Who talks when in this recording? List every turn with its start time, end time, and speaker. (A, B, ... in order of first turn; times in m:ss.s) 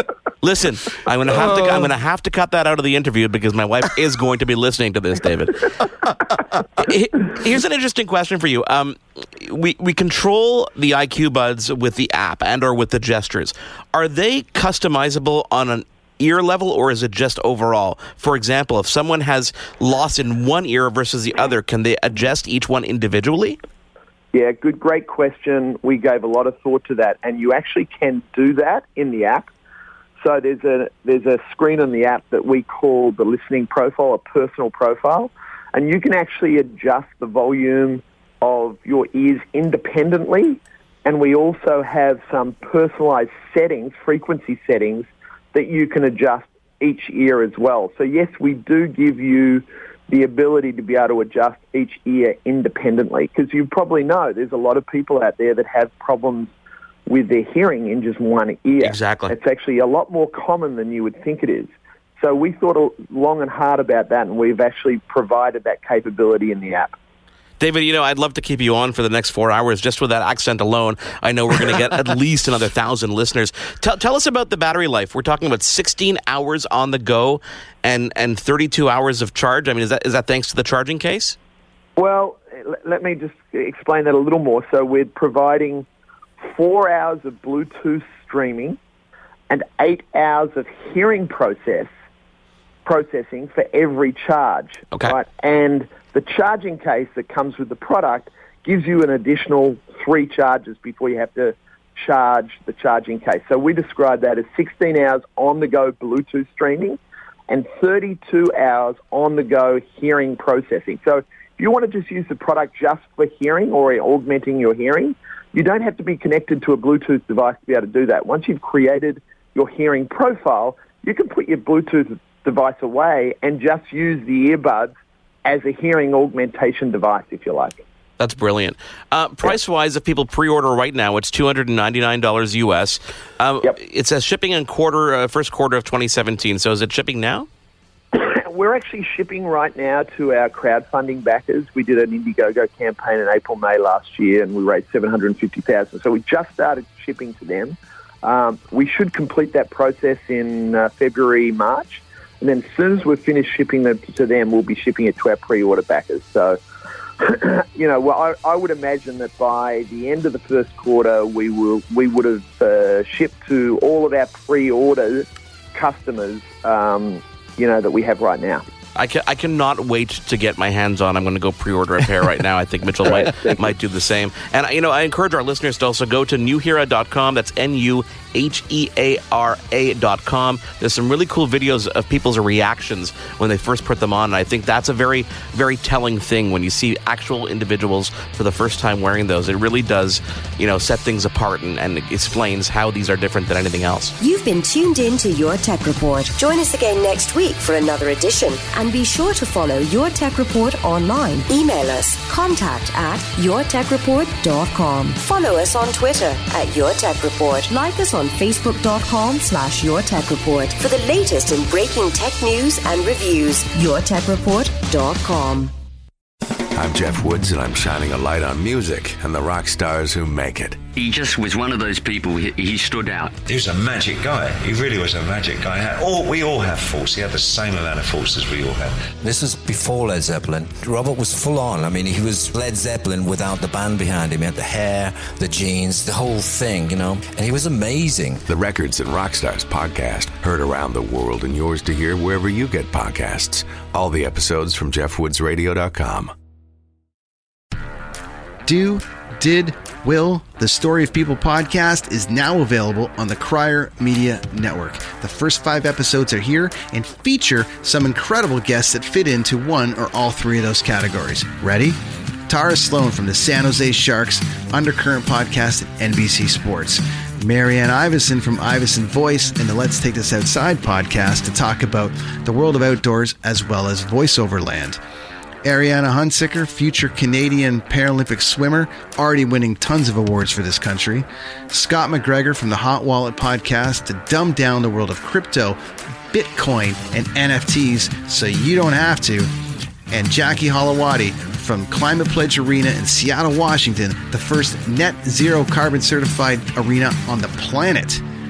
0:00.4-0:05.7 A
0:06.8-0:23.6 A
0:24.3-0:29.5 B
0:30.2-0:56.5 B
0:57.1-1:06.9 B
0:58.8-0:59.3 A
1:07.6-1:21.4 A
1:22.0-1:25.9 B
1:26.4-1:28.8 B
1:29.5-1:31.9 B
1:32.8-2:04.9 B
2:05.4-2:07.8 B
2:08.2-2:17.5 A
2:18.1-2:36.6 B
2:37.2-2:48.6 B
2:49.0-3:14.1 A
2:53.0-2:53.8 B
3:14.2-3:35.7 C
3:36.7-3:40.8 D
3:40.9-3:43.4 E
3:43.4-3:49.1 F
3:49.2-3:58.4 G
3:58.5-4:06.3 D
4:08.6-4:22.0 H
4:22.5-4:35.0 H
4:35.6-4:45.8 H
4:46.3-4:49.5 H
4:50.1-4:58.2 H